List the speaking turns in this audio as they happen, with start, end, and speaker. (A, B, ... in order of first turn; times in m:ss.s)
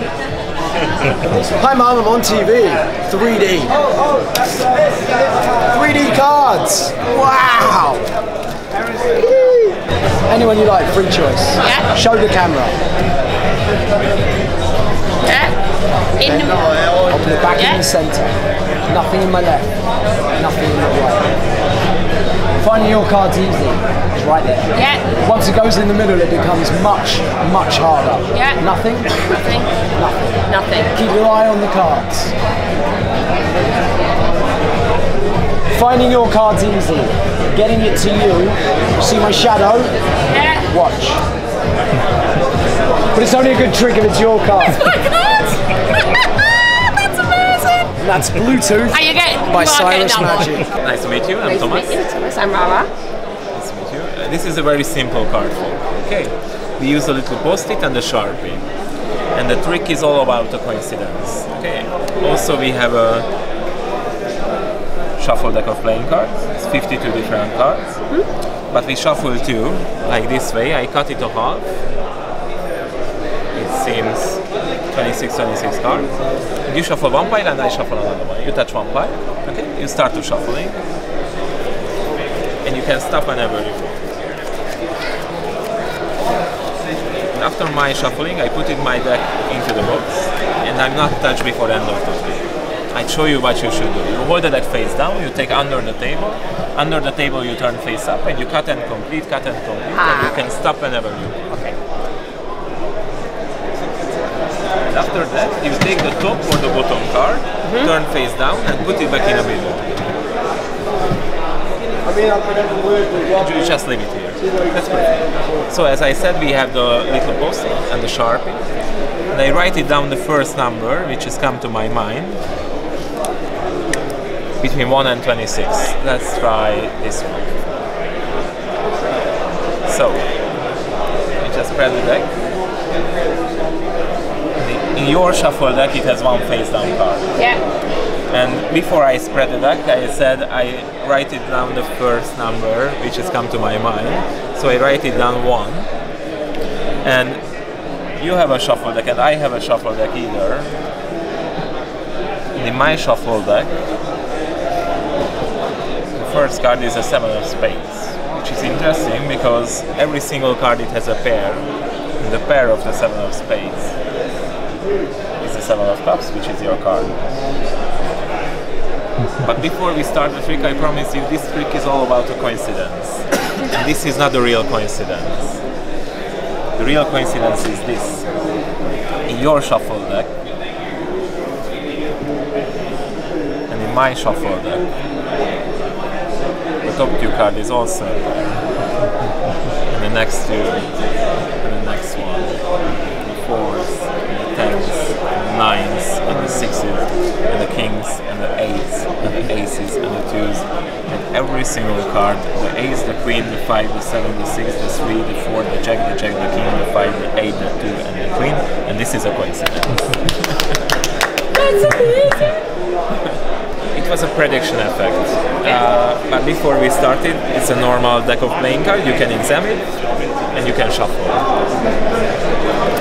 0:01.2-0:03.8 A
0:05.7-0:08.0 A
0:09.2-0:09.8 A
0:10.3-0:12.8 A
0:11.6-0:11.9 B
0:15.3-0:15.6 B
0:16.2-0:16.7 B
0:17.1-0:18.3 A
0:17.5-0:17.8 B
0:18.9-0:19.7 A
0:20.4-0:21.3 A
0:22.6-0:29.2 A
0:24.8-0:25.0 B
0:28.3-0:28.6 B
0:29.3-0:29.7 B
0:30.0-0:30.3 A
0:30.5-0:30.9 B
0:30.9-0:32.3 A
0:35.7-0:40.0 A
0:40.3-0:40.6 B
0:40.7-0:41.2 A
0:43.1-0:44.8 A
0:44.7-0:46.2 B
0:48.0-0:50.7 A
0:48.9-0:50.6 B
0:50.8-0:52.0 C
0:51.4-0:52.9 B
0:53.5-0:58.7 C
0:59.4-1:03.3 C
1:05.2-1:08.0 C
1:08.7-1:11.6 C
1:13.6-1:14.4 C
1:14.9-1:16.1 C
1:16.7-1:20.8 C
1:22.6-1:24.0 C
1:27.3-1:41.4 C
1:40.0-1:40.5 B
1:41.5-1:41.8 B
1:44.9-1:49.9 C
1:47.6-1:47.9 B
1:53.3-1:55.1 C
1:55.7-1:58.6 C
1:59.3-2:02.4 C
2:04.6-2:07.5 C
2:09.9-2:10.2 C
2:11.4-2:12.3 C
2:14.6-2:17.3 C
2:17.4-2:17.6 B
2:18.3-2:25.9 C
2:27.0-2:27.4 C
2:28.2-2:30.7 C
2:32.6-2:33.7 C
2:36.2-2:41.6 C
2:42.2-2:43.9 C
2:45.4-2:47.2 C
2:49.4-2:55.6 C
2:56.8-2:58.2 C
2:59.3-3:00.3 C
3:03.7-3:04.8 C
3:06.8-3:08.5 C
3:09.9-3:10.9 C
3:11.6-3:12.6 C
3:13.2-3:30.0 C
3:31.6-3:32.4 B
3:33.9-3:39.8 C
3:40.5-3:41.5 C